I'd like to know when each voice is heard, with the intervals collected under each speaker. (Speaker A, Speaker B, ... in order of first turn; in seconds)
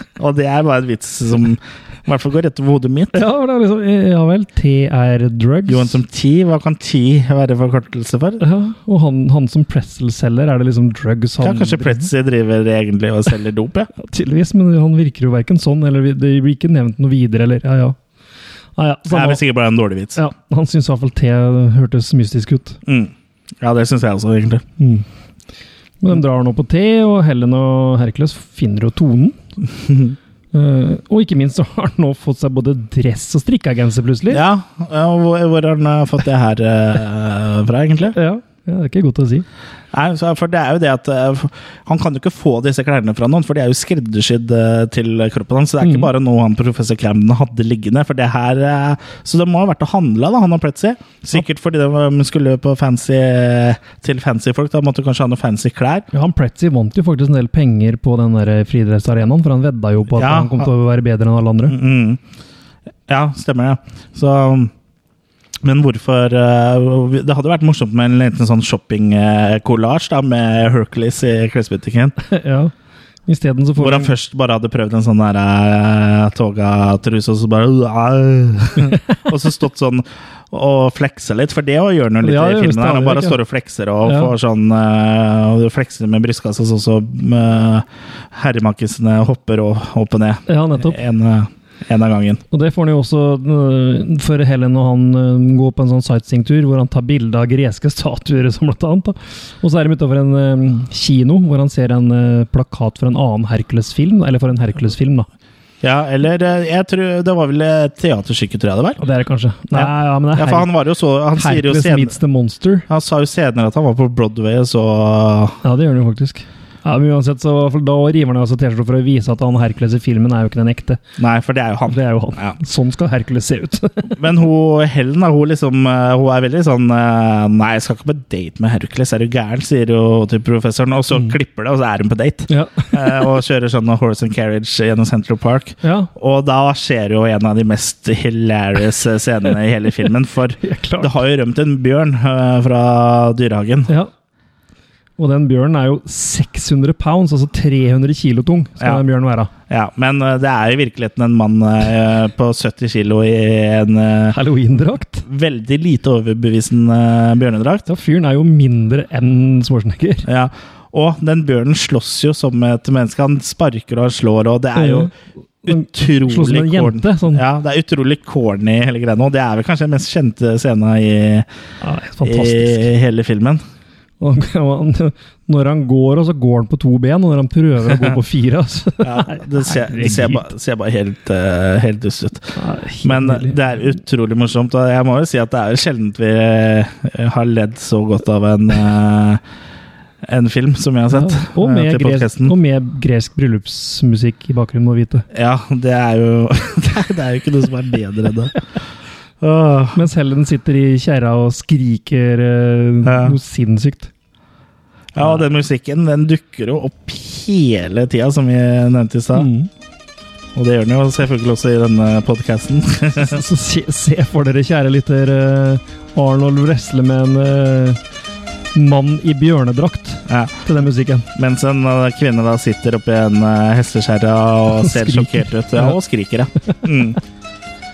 Speaker A: 0.2-3.2, 5.7-8.4, 11.4-13.9, 19.1-20.2, 22.9-24.6, 29.8-30.1, 34.3-38.2, 39.9-56.1, 60.1-60.7, 61.7-62.2, 63.1-64.7, 65.6-72.2, 73.8-92.4, 105.8-109.0, 109.7-112.2, 112.9-115.6, 121.2-122.6, 124.1-143.9, 149.7-154.4, 155.2-157.8, 160.2-165.1, 165.6-171.5, 172.2-173.6, 179.0-189.4, 190.2-192.5, 195.3-198.5, 199.4-200.0, 203.0-203.3, 205.1-209.5, 210.5-213.4, 220.3-220.5, 221.3-227.2
Speaker B: 3.1-6.0, 8.4-12.1, 14.0-17.9, 18.8-19.4, 20.1-22.8, 24.8-25.0, 26.0-29.4, 30.5-34.4, 38.1-39.5, 45.8-46.1, 56.1-61.8, 72.2-72.7, 73.3-74.1, 82.2-83.4, 84.0-84.3, 90.5-91.0, 92.5-105.3, 109.0-110.7, 111.3-112.9, 115.6-121.0, 121.9-124.2, 132.5-133.3, 135.8-136.1, 140.6-141.1, 145.2-149.5, 154.3-155.2, 157.9-160.2, 164.8-165.1, 165.7-167.4, 171.8-172.9, 174.2-180.5, 182.6-183.6, 191.1-195.2, 199.9-204.1, 209.3-209.7, 213.2-218.0, 218.7-221.3, 224.8-225.9